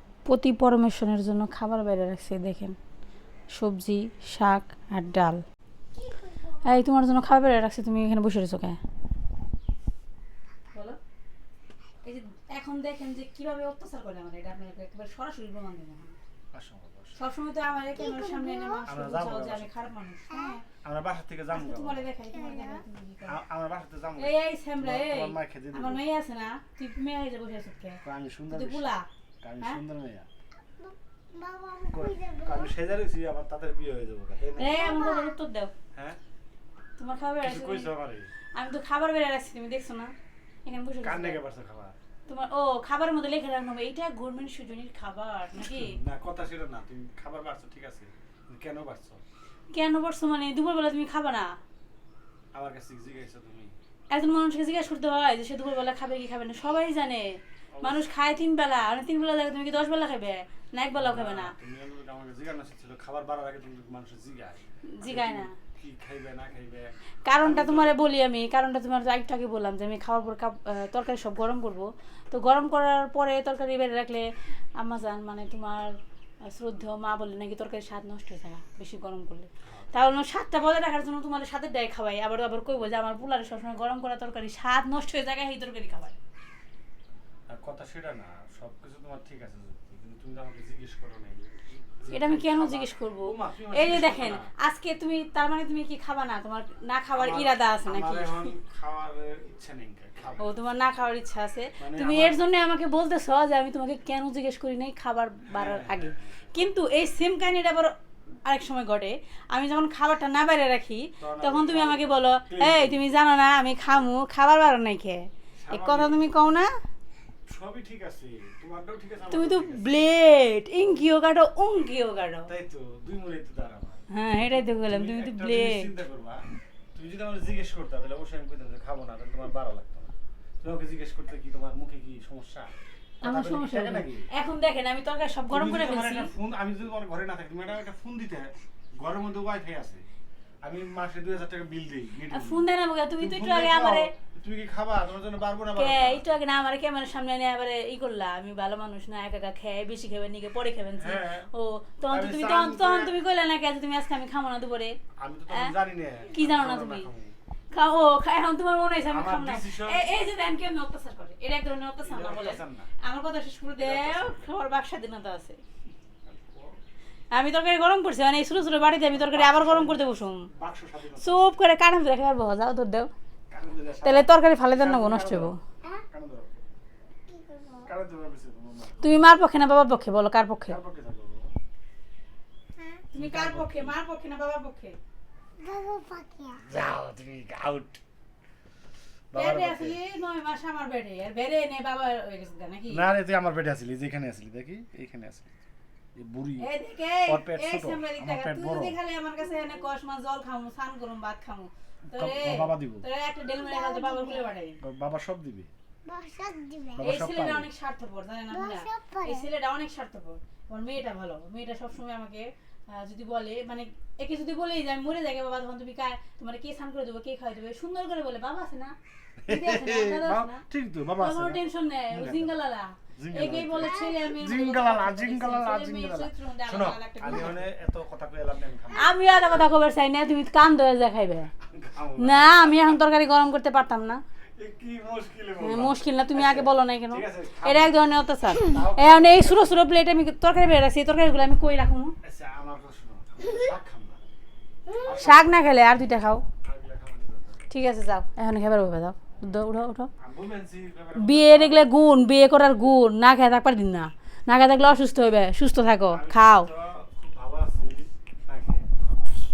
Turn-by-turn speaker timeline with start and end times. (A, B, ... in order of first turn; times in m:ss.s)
0:00.2-0:02.8 A
0:03.5-0:05.4 A
0:06.6-0:08.8 A
0:10.7-0:11.0 A
0:12.0-0:16.2 A
0:16.5-0:17.2 B
0:17.2-0:20.6 A
0:18.1-0:18.8 C
0:18.9-0:20.0 B
0:20.8-0:22.1 B
0:21.5-0:23.4 A
0:23.3-0:26.0 B
0:24.2-0:29.1 A
0:28.0-0:30.3 B
0:30.8-0:32.6 C
0:31.9-0:35.0 B
0:34.6-0:35.7 A
0:35.9-0:36.2 B
0:37.0-0:37.9 A
0:37.4-0:38.3 B
0:38.6-0:40.1 A
0:40.6-0:41.4 A
0:41.0-0:42.0 B
0:42.3-0:46.0 A
0:45.6-0:49.2 B
0:49.7-0:51.5 A
0:52.5-0:53.8 B
0:54.1-1:01.5 A
0:57.8-0:58.1 B
1:01.0-1:08.0 B
1:05.0-1:05.5 A
1:07.3-1:14.3 A
1:14.8-1:26.2 A
1:19.6-1:20.0 B
1:27.5-1:34.5 B
1:32.1-1:38.6 A
1:37.1-1:40.7 B
1:40.4-1:47.9 A
1:41.8-1:42.4 B
1:45.5-1:46.7 B
1:48.4-1:56.7 A
1:51.2-1:53.0 B
1:55.6-1:56.3 B
1:57.5-2:00.0 B
1:59.3-2:02.5 A
2:02.5-2:06.4 B
2:04.1-2:05.9 A
2:07.0-2:14.3 B
2:13.2-2:16.3 A
2:15.5-2:20.1 B
2:20.6-2:26.2 B
2:22.3-2:24.1 A
2:25.8-2:35.0 A
2:31.0-2:31.5 B
2:32.1-2:33.2 B
2:35.2-2:37.4 B
2:36.3-2:37.1 A
2:37.7-2:45.6 A
2:39.1-2:40.1 B
2:42.0-2:42.9 B
2:43.8-2:44.5 B
2:46.2-2:46.8 B
2:47.3-2:50.5 A
2:49.1-2:51.6 B
2:51.2-2:53.1 A
2:53.5-2:56.5 B
2:54.0-2:55.6 A
2:57.3-2:57.9 C
2:57.8-2:59.0 B
2:59.0-3:00.8 A
3:00.7-3:01.5 B
3:02.8-3:03.0 C
3:03.1-3:05.0 A
3:03.2-3:04.0 B
3:05.6-3:06.6 C
3:06.6-3:08.0 B
3:09.3-3:10.0 B
3:09.4-3:13.0 A
3:12.9-3:15.6 B
3:16.2-3:16.7 B
3:16.6-3:24.8 A
3:17.3-3:19.0 B
3:22.1-3:23.1 B
3:23.5-3:24.3 C
3:24.8-3:25.7 B
3:26.1-3:27.0 C
3:26.9-3:27.7 B
3:27.0-3:39.0 A
3:28.5-3:29.4 C
3:39.4-3:42.5 B
3:39.5-3:40.6 A
3:41.2-3:47.7 A
3:43.2-3:49.1 B
3:49.0-3:51.5 A
3:51.6-3:53.0 B
3:52.2-3:54.2 A
3:54.6-3:58.0 B
3:55.6-4:02.2 A
3:58.6-3:59.9 B
4:02.2-4:04.2 B
4:04.9-4:05.6 B
4:05.0-4:06.4 A
4:06.6-4:07.7 B
4:07.7-4:10.1 A
4:10.2-4:11.9 B
4:11.2-4:16.7 A
4:16.1-4:18.9 B